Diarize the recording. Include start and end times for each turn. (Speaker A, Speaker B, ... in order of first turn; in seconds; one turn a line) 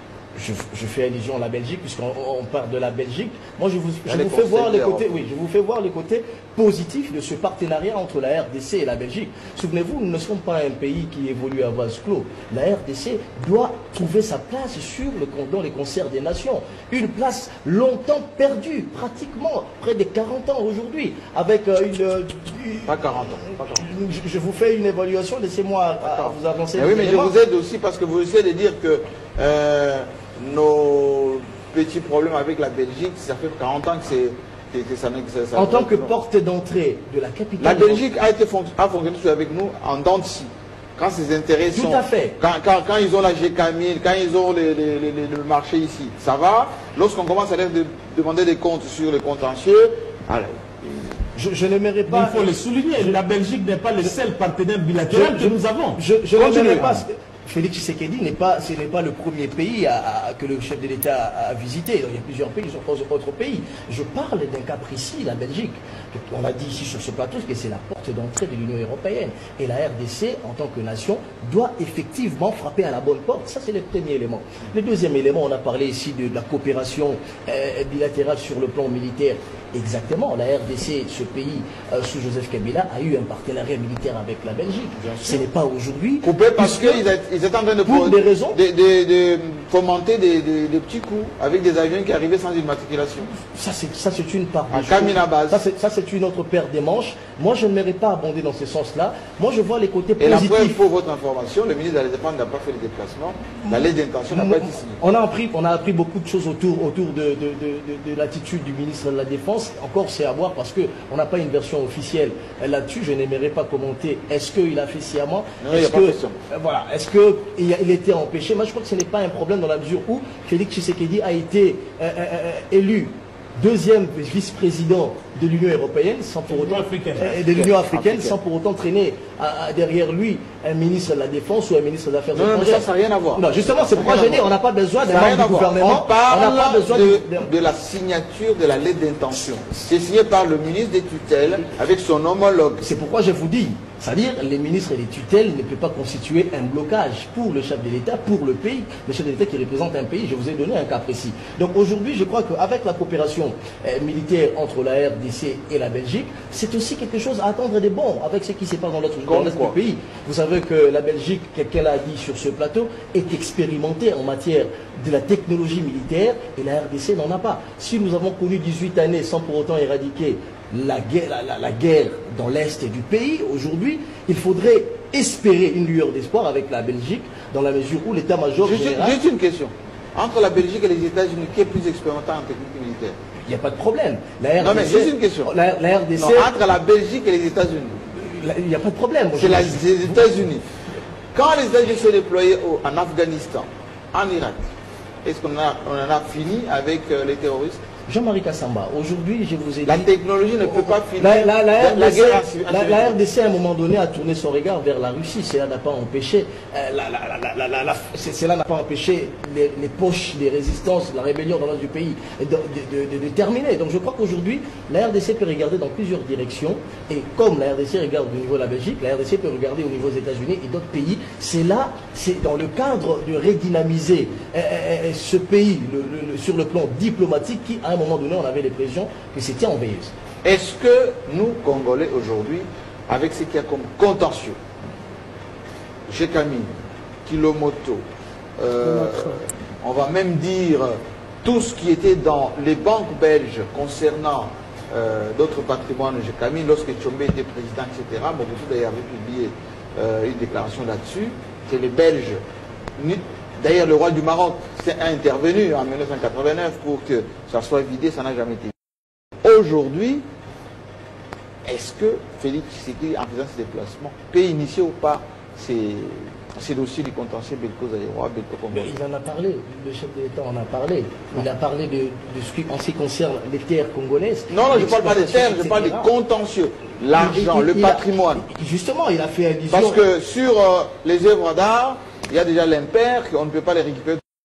Speaker A: 0.3-27.3
Speaker B: 4.0-5.1
Speaker B: 22.9-23.9
Speaker B: 26.0-36.2
Speaker A: 35.5-38.0
Speaker B: 37.6-51.2
Speaker A: 41.7-42.4
Speaker A: 51.4-53.1
Speaker C: 52.1-56.0
Speaker A: 55.1-87.0
Speaker B: 56.4-57.0
Speaker B: 85.0-85.4
Speaker B: 86.2-93.4
Speaker A: 87.8-88.6
Speaker A: 93.5-100.8
Speaker B: 94.7-95.6
Speaker B: 100.2-105.0
Speaker A: 103.6-137.5
Speaker B: 115.6-116.4
Speaker C: 126.5-127.3
Speaker B: 127.2-128.4
Speaker B: 132.3-134.5
Speaker B: 135.0-142.9
Speaker A: 142.8-179.2
Speaker B: 159.3-159.8
Speaker B: 178.6-183.2
Speaker A: 183.5-186.5
Speaker B: 184.6-185.5
Speaker B: 186.2-188.0
Speaker A: 188.1-190.3
Speaker B: 189.4-190.6
Speaker B: 191.3-194.7
Speaker B: 195.2-197.8
Speaker A: 198.1-200.1
Speaker B: 199.9-203.2
Speaker A: 200.6-230.1
Speaker B: 230.4-234.6
Speaker B: 236.1-238.1
Speaker B: 238.6-252.4
Speaker B: 253.0-258.7
Speaker B: 259.4-260.2
Speaker B: 261.6-268.9
Speaker A: 268.7-276.1
Speaker B: 274.5-278.4
Speaker A: 277.1-280.1
Speaker B: 279.7-284.2